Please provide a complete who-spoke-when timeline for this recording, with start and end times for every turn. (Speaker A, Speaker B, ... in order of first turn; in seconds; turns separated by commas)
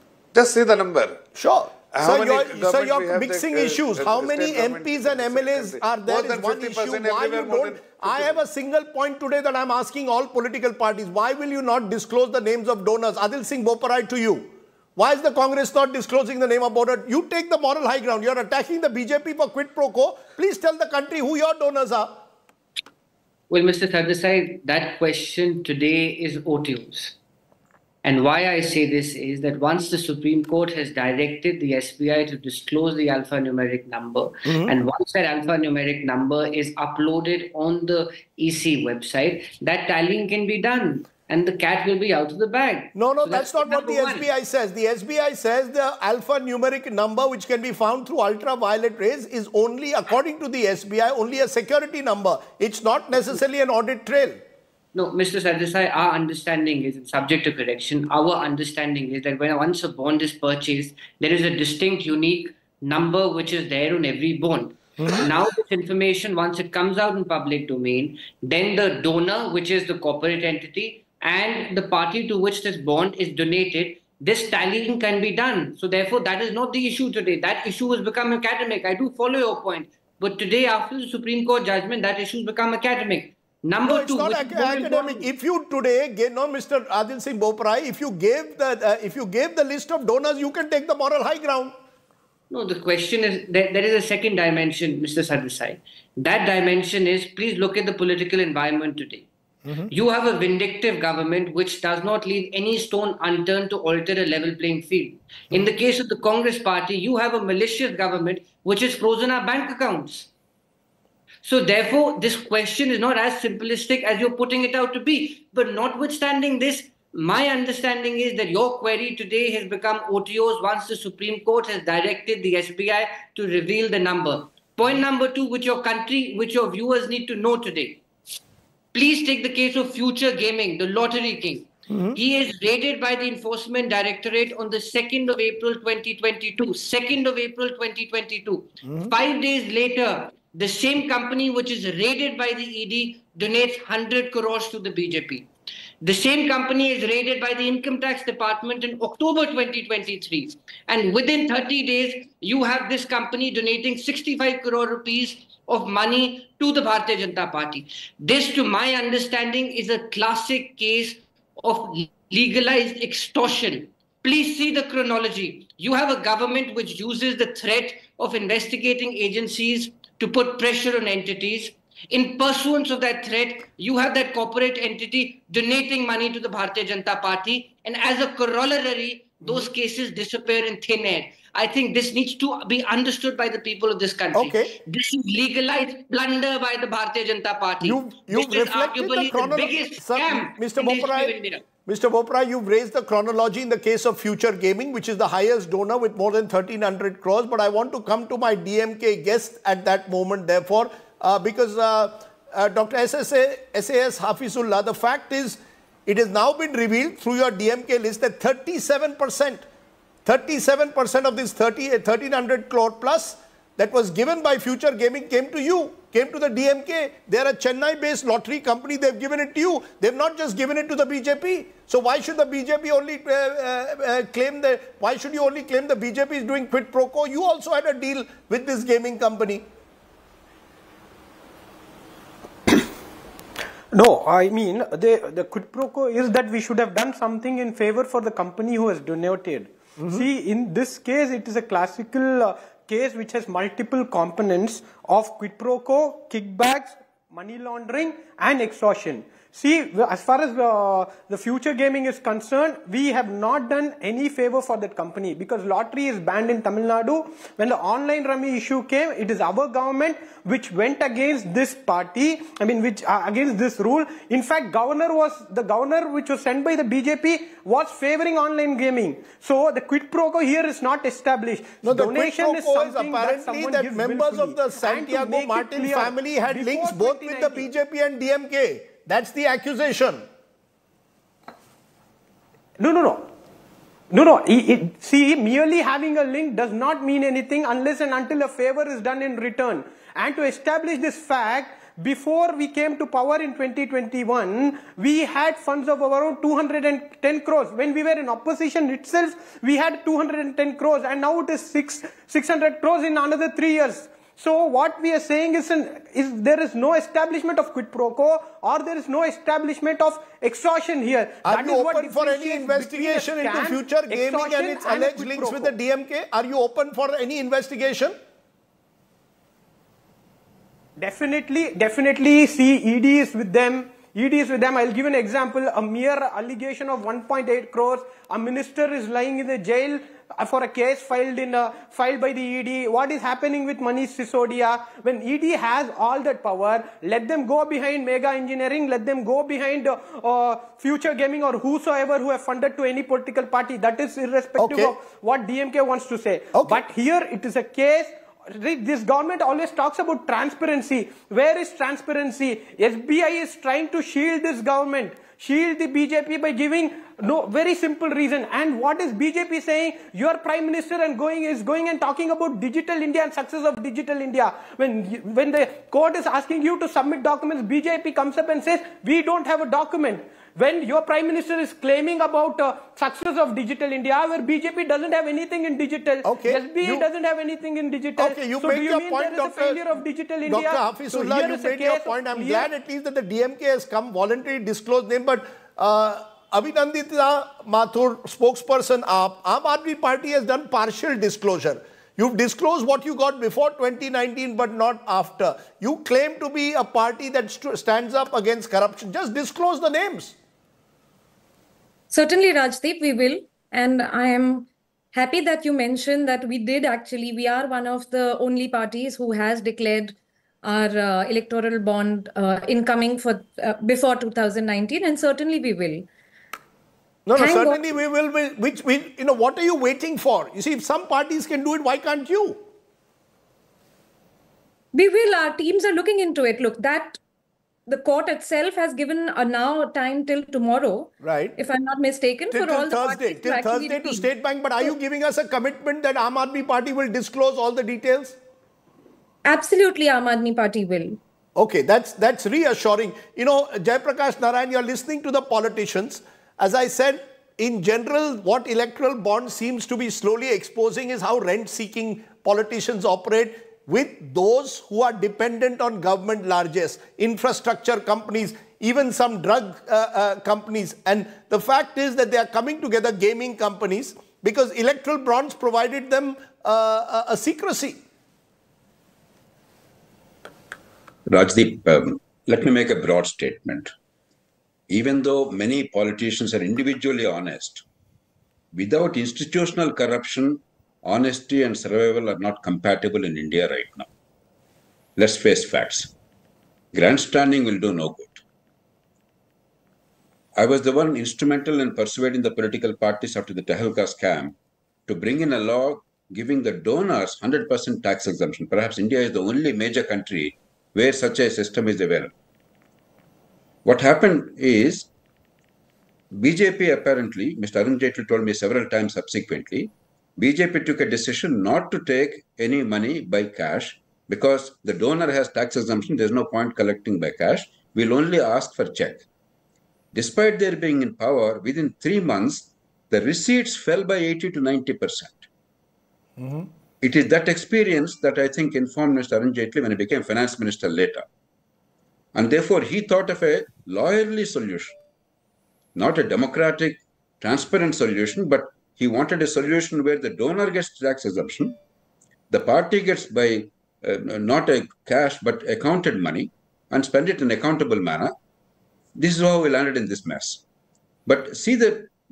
Speaker A: 0.3-1.2, Speaker B: 1.4-22.2, Speaker A: 1.9-8.4, Speaker C: 23.5-27.1, Speaker C: 28.0-44.3, Speaker B: 34.5-34.7, Speaker B: 43.0-54.4, Speaker C: 54.9-85.3, Speaker B: 65.0-65.3, Speaker B: 83.8-91.8, Speaker C: 92.5-99.3, Speaker C: 99.9-110.3, Speaker C: 111.4-128.0, Speaker C: 128.9-145.5, Speaker B: 131.9-132.2, Speaker B: 138.9-139.1, Speaker C: 146.0-191.6, Speaker B: 184.3-184.7, Speaker B: 187.8-191.3, Speaker B: 191.9-209.7, Speaker B: 210.2-229.7, Speaker D: 233.9-277.7, Speaker B: 271.8-280.2, Speaker D: 282.8-283.3, Speaker D: 284.1-315.7, Speaker B: 311.4-318.2, Speaker D: 321.0-382.7, Speaker B: 344.6-344.9, Speaker B: 346.6-346.8, Speaker B: 376.2-377.1, Speaker B: 378.2-379.9, Speaker B: 380.4-400.4, Speaker E: 402.1-416.1, Speaker B: 417.3-422.6, Speaker E: 417.4-417.8, Speaker E: 424.9-427.2, Speaker E: 427.9-434.3, Speaker B: 431.2-431.6, Speaker B: 432.5-438.4, Speaker E: 439.4-441.2, Speaker B: 441.6-468.0, Speaker F: 471.3-473.9, Speaker F: 474.9-477.8, Speaker F: 478.7-484.1, Speaker F: 485.2-486.1, Speaker F: 486.9-488.4, Speaker F: 490.6-494.6, Speaker F: 495.1-502.3, Speaker F: 503.9-505.1, Speaker F: 506.3-519.2, Speaker F: 520.1-525.5, Speaker B: 526.4-526.7, Speaker F: 527.0-531.3, Speaker F: 532.4-535.0, Speaker F: 536.0-541.8, Speaker F: 542.5-548.4, Speaker F: 549.2-550.6, Speaker F: 551.3-552.1